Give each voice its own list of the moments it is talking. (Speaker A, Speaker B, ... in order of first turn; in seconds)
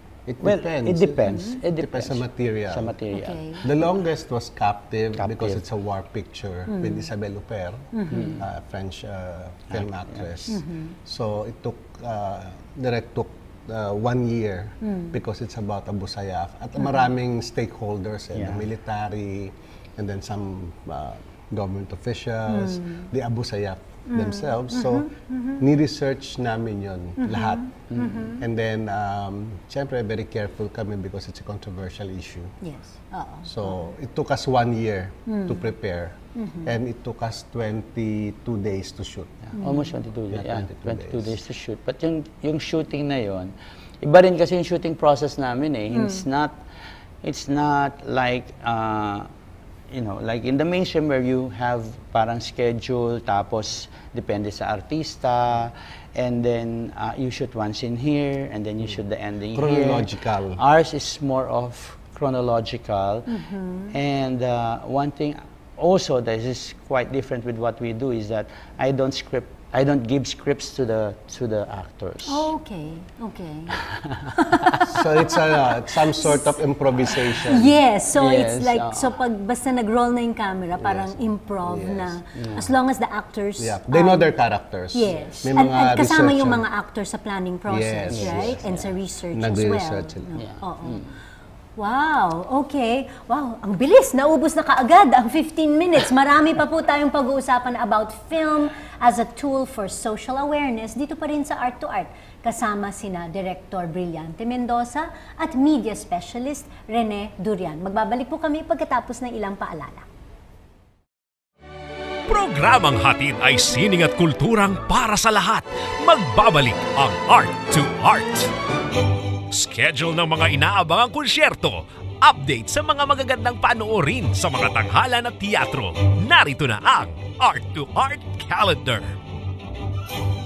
Speaker A: 0.3-2.9, 3.6-27.8, 28.4-32.6, 33.5-39.5, 40.3-41.3, 59.5-60.6, 74.8-77.7, 80.8-82.2, 83.6-86.7, 87.7-88.7, 89.3-90.4
Speaker B: 0.4-3.7, 5.2-5.6, 8.1-8.5, 9.7-10.2, 18.3-18.6, 27.9-28.3, 39.6-46.6, 47.2-49.3, 49.9-63.4, 63.9-72.5, 73.8-74.8, 78.2-79.2, 82.4-82.7, 88.1-88.8, 90.4-91.1
Speaker C: 1.3-1.6, 3.1-3.6, 6.7-7.1, 7.9-8.4, 10.5-10.9, 14.8-15.2, 22.5-23.1, 24.1-25.6, 27.2-28.4, 32.6-33.9, 35.3-35.7, 36.4-36.7, 39.5-39.9, 45.9-46.2, 63.3-63.9, 72.3-73.8, 74.3-84.3, 84.9-91.0, 91.8-110.1
Speaker D: 112.3-118.5, 119.5-129.2